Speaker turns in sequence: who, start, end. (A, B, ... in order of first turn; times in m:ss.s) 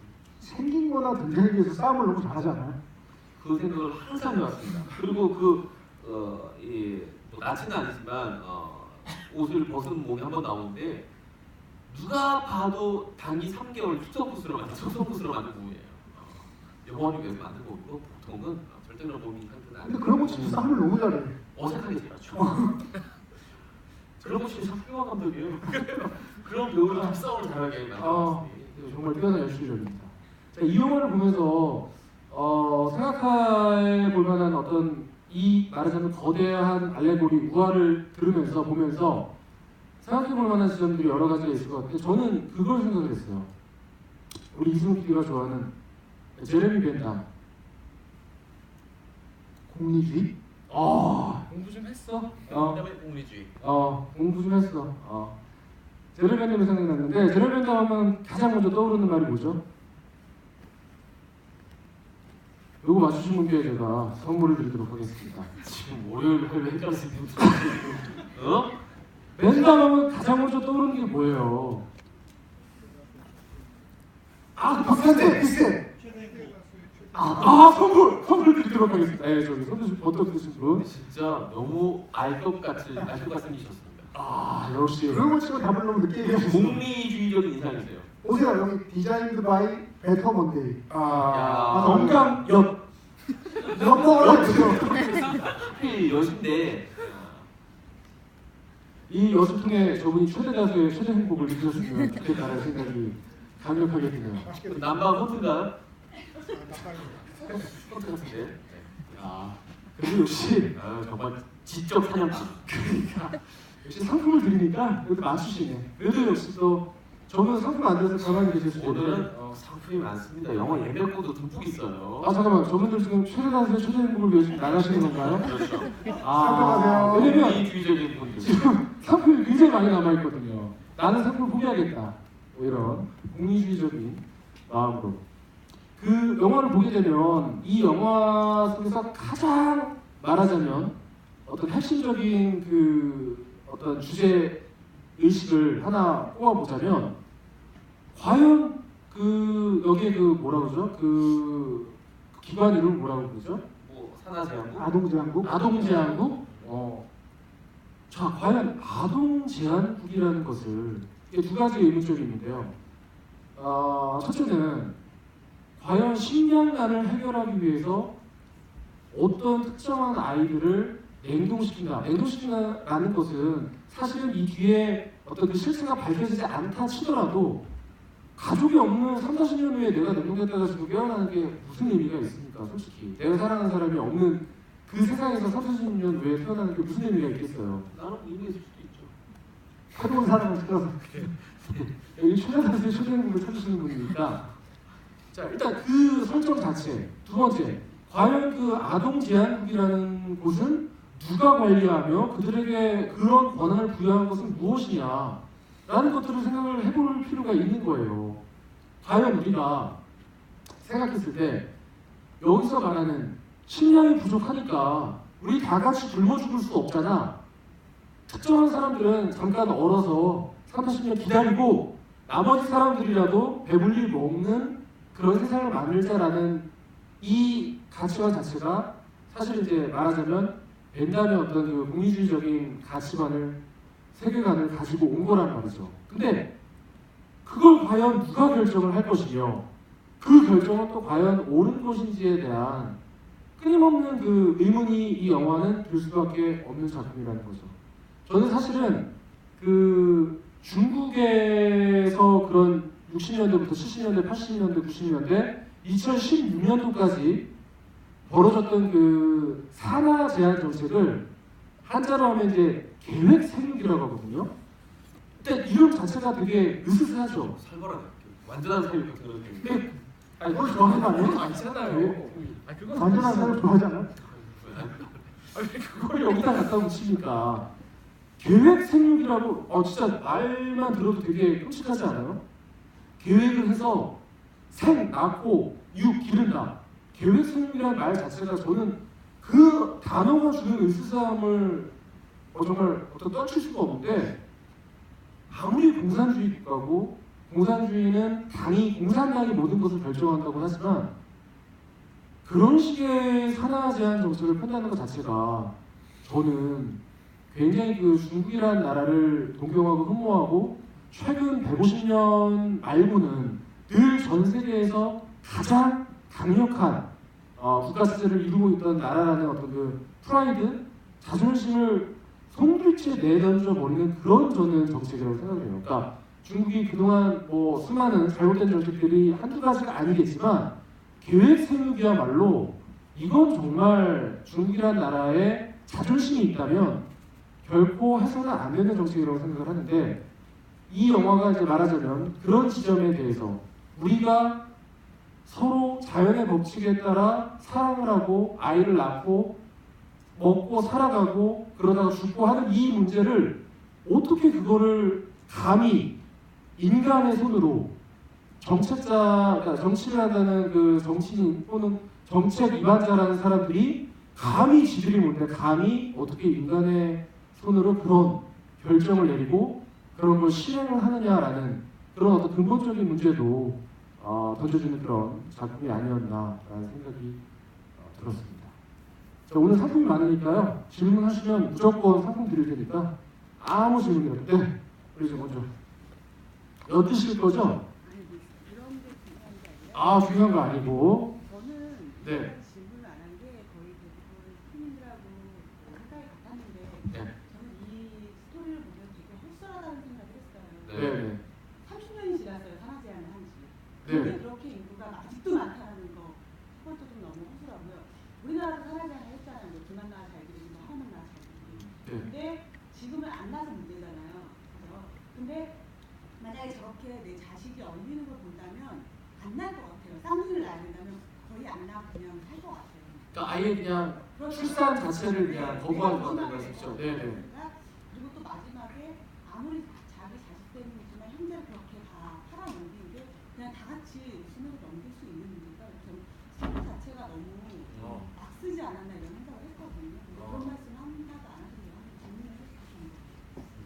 0:00.4-0:02.8 A
0:03.4-0:11.1 B
0:11.9-0:20.6 B
0:19.8-0:21.4 A
0:20.3-0:20.7 C
0:21.5-0:22.7 B
0:22.4-0:22.7 A
0:24.2-0:28.7 B
0:26.9-0:27.2 C
0:28.0-0:39.3 C
0:40.0-0:43.5 C
0:44.5-0:45.7 C
0:46.4-0:47.2 C
0:49.7-0:50.3 A
0:50.7-0:52.8 C
0:52.5-0:53.5 B
0:53.6-0:55.4 C
0:56.2-0:59.6 C
1:02.8-1:08.1 C
1:05.6-1:08.8 B
1:09.4-1:11.8 C
1:14.6-1:15.5 C
1:14.8-1:15.9 A
1:17.1-1:17.6 A
1:17.4-1:20.9 C
1:20.8-1:24.1 B
1:24.1-1:25.3 C
1:25.1-1:26.8 A
1:26.4-1:28.1 B
1:28.2-1:30.9 A
1:30.9-1:32.8 C
1:31.3-1:32.1 B
1:31.6-1:32.4 A
1:33.6-1:35.2 A
1:33.8-1:34.4 B
1:33.9-1:35.0 C
1:35.0-1:37.5 B
1:39.1-1:44.6 C
1:44.6-1:45.8 B
1:47.5-1:49.6 B
1:50.0-1:50.7 C
1:50.6-1:52.9 B
1:53.0-1:59.6 C
1:58.7-2:02.3 B
2:02.2-2:05.5 C
2:05.4-2:06.1 B
2:06.2-2:07.7 C
2:06.3-2:07.5 A
2:07.2-2:08.5 B
2:08.4-2:15.2 C
2:16.0-2:24.6 C
2:25.2-2:27.2 C
2:28.1-2:33.6 C
2:33.7-2:34.9 B
2:34.8-2:35.9 A
2:35.4-2:37.1 C
2:35.7-2:36.4 B
2:38.1-2:42.7 C
2:43.6-2:45.0 C
2:45.8-2:48.2 C
2:49.1-2:57.6 C
2:58.4-3:07.9 C
3:07.9-3:09.1 B
3:09.9-3:11.0 A
3:11.2-3:11.8 B
3:11.9-3:14.5 C
3:15.3-3:28.4 C
3:29.0-3:30.0 C
3:30.8-3:31.7 C
3:32.4-3:37.4 C
3:38.3-3:46.7 C
3:47.2-3:53.6 C
3:54.1-3:56.5 C
3:57.4-3:59.6 C
4:00.2-4:03.0 C
4:03.6-4:07.7 C
4:08.3-4:17.5 C
4:18.3-4:21.3 C
4:21.8-4:24.5 C
4:25.4-4:27.6 C
4:27.5-4:29.8 B
4:29.6-4:33.6 C
4:30.5-4:31.9 A
4:31.2-4:33.0 B
4:32.9-4:34.1 A
4:34.2-4:35.5 B
4:35.5-4:37.7 C
4:38.4-4:42.4 C
4:43.2-4:44.2 C
4:44.7-4:52.0 C
4:52.5-4:54.4 C
4:55.5-5:01.1 C
5:02.4-5:37.1 C
5:37.6-5:40.2 C
5:40.9-5:44.6 C
5:45.4-5:49.6 C
5:50.4-5:56.1 C
5:56.8-5:57.9 C
5:58.6-6:17.4 C
6:18.0-6:18.7 C
6:19.5-6:25.7 C
6:26.9-6:27.8 C
6:28.0-6:41.3 D
6:29.9-6:31.3 C
6:32.2-6:32.5 C
6:40.9-6:41.2 B
6:40.9-6:41.4 C
6:41.8-6:55.8 D
6:44.0-6:44.4 C
6:51.9-6:52.3 C
6:56.4-7:03.6 D
7:03.3-7:07.4 C
7:04.3-7:23.4 D
7:17.9-7:18.3 B